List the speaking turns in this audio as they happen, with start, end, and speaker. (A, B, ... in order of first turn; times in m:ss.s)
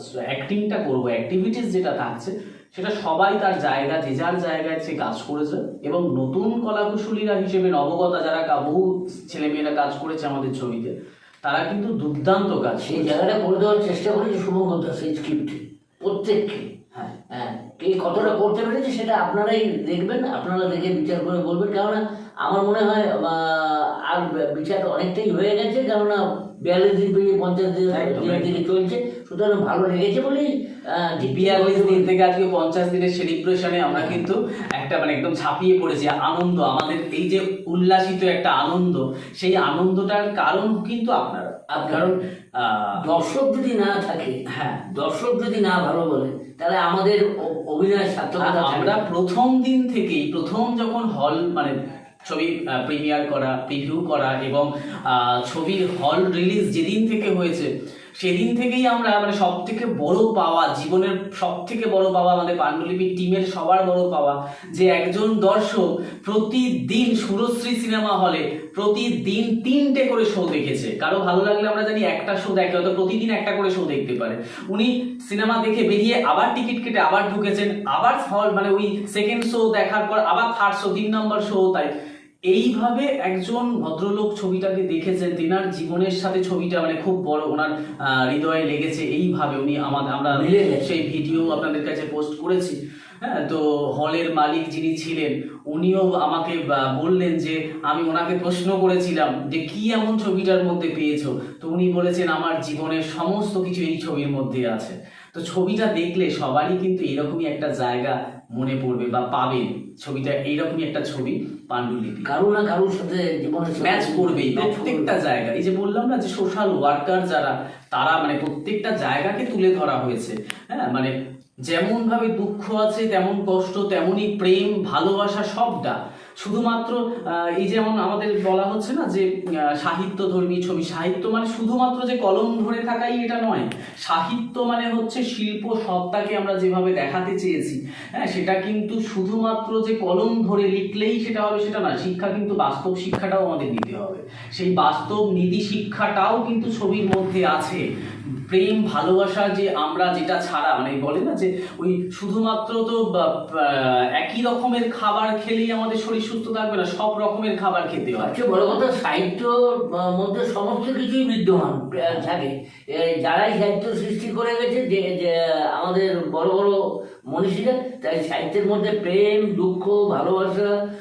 0:00.3-0:13.2 A
0:12.8-0:16.6 B
0:17.3-0:32.1 B
0:27.9-0:28.6 A
0:31.3-0:43.0 A
0:33.9-0:34.2 B
0:41.7-0:42.1 B
0:43.0-0:44.4 B
0:44.5-0:44.8 A
0:44.9-0:49.0 B
0:48.4-0:51.7 A
0:52.3-1:21.9 A
1:22.5-1:52.3 A
1:30.3-1:31.0 B
1:52.2-1:55.1 B
1:53.8-2:01.1 A
2:01.7-2:27.8 A
2:28.4-2:38.4 A
2:38.2-2:46.7 B
2:47.3-2:50.7 B